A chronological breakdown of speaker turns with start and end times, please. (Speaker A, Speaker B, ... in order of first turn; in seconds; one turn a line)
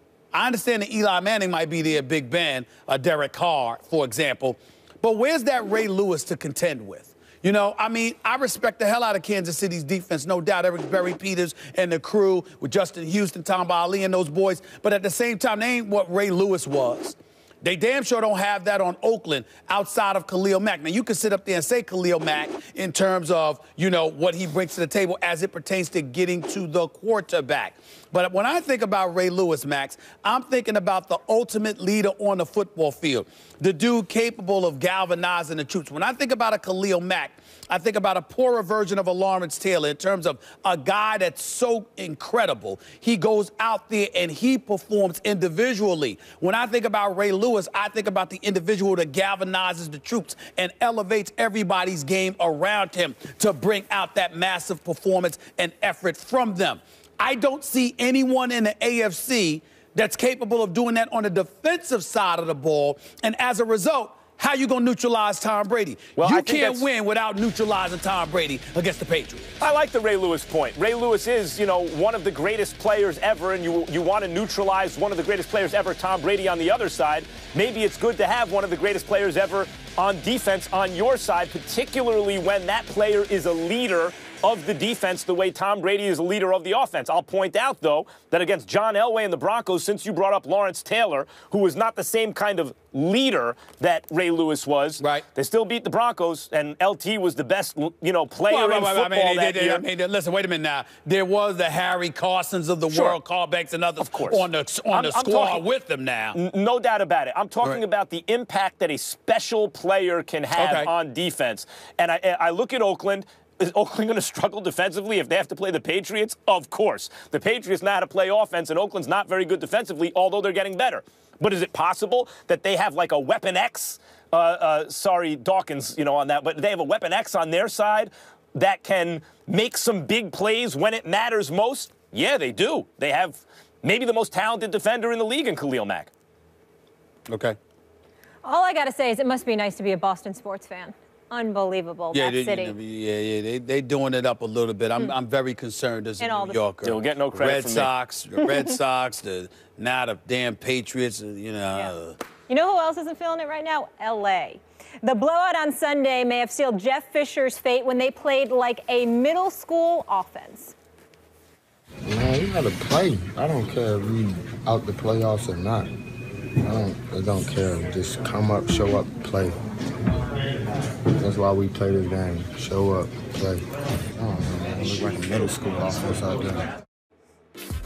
Speaker A: 0.3-69.5
Speaker B: 66.2-66.9
Speaker B: 69.6-99.8
Speaker A: 95.0-95.2
Speaker A: 98.5-106.4
Speaker B: 102.9-103.2
Speaker B: 104.0-105.6
Speaker B: 106.3-136.1
Speaker A: 110.5-110.9
Speaker A: 137.3-137.6
Speaker C: 138.4-142.8
Speaker A: 142.1-152.2
Speaker C: 146.2-146.6
Speaker B: 146.8-147.9
Speaker C: 152.5-160.7
Speaker D: 162.0-165.9
Speaker D: 166.6-169.6
Speaker D: 171.1-176.7